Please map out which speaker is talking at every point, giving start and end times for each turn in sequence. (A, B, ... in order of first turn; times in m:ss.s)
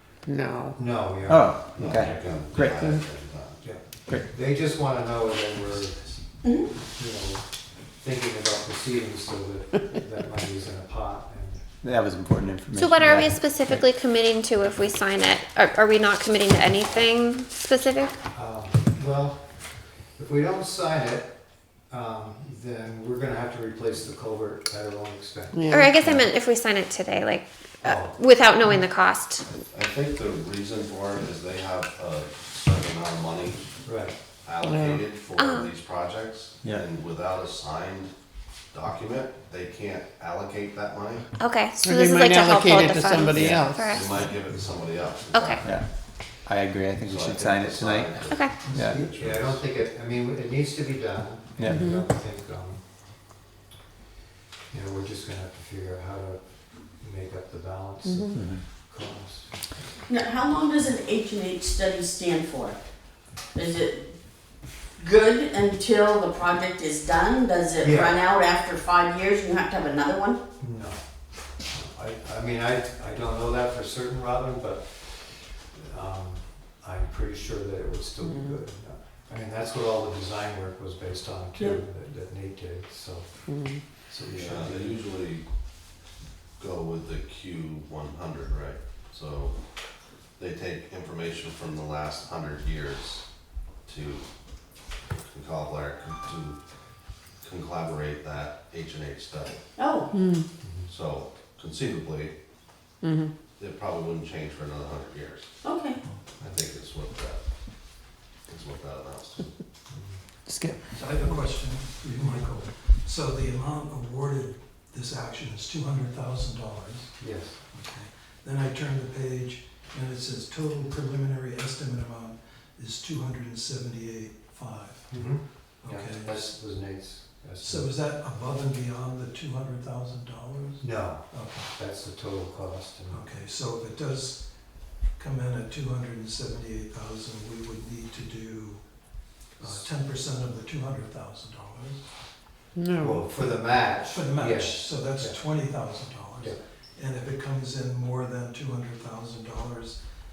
0:00.3-0:00.8 A
0:00.8-0:02.6 B
0:01.3-0:02.9 C
0:01.8-0:03.6 D
0:02.7-0:03.0 A
0:03.6-0:06.0 B
0:06.4-0:06.7 E
0:06.9-0:07.4 B
0:08.0-0:11.6 B
0:11.8-0:13.8 C
0:12.8-0:18.2 F
0:18.3-0:19.4 B
0:20.2-0:21.3 B
0:21.9-0:25.7 B
0:25.5-0:26.0 A
0:25.7-0:29.5 F
0:27.8-0:28.2 B
0:29.7-0:33.7 D
0:33.8-0:34.2 B
0:34.4-0:38.1 D
0:34.6-0:35.0 A
0:35.3-0:35.8 F
0:38.7-0:41.3 D
0:41.4-0:44.2 F
0:41.8-0:44.0 A
0:43.3-0:43.6 C
0:44.0-0:45.7 D
0:44.7-0:45.1 B
0:45.3-0:45.7 F
0:45.6-0:49.0 C
0:47.0-0:49.6 D
0:48.3-0:48.7 F
0:48.6-0:49.2 G
0:48.8-0:52.8 B
0:51.6-0:51.9 C
0:51.6-0:52.0 A
0:54.7-0:56.4 B
0:57.0-0:59.7 B
0:58.1-0:58.4 A
0:58.3-0:58.6 C
1:00.1-1:02.8 E
1:03.5-1:04.2 E
1:05.0-1:10.4 E
1:07.8-1:08.2 B
1:10.6-1:11.0 B
1:11.6-1:25.0 B
1:18.2-1:18.6 A
1:23.5-1:23.8 A
1:24.3-1:25.4 D
1:26.6-1:29.6 D
1:30.4-1:33.2 D
1:33.8-1:34.3 D
1:35.1-1:36.6 D
1:37.4-1:39.6 D
1:39.8-1:40.1 E
1:40.1-1:40.5 A
1:40.6-1:40.9 B
1:40.9-1:42.3 D
1:43.0-1:43.3 A
1:43.6-1:45.5 D
1:45.6-1:46.0 E
1:46.4-1:47.4 D
1:48.5-1:49.5 D
1:49.9-1:50.2 B
1:50.5-2:05.1 G
1:52.2-1:52.4 B
1:57.2-1:57.6 B
2:05.1-2:07.9 B
2:05.8-2:06.6 G
2:07.6-2:11.7 G
2:10.8-2:13.2 B
2:13.1-2:22.2 G
2:19.6-2:19.8 B
2:22.8-2:23.2 A
2:22.9-2:25.7 B
2:24.0-2:30.0 G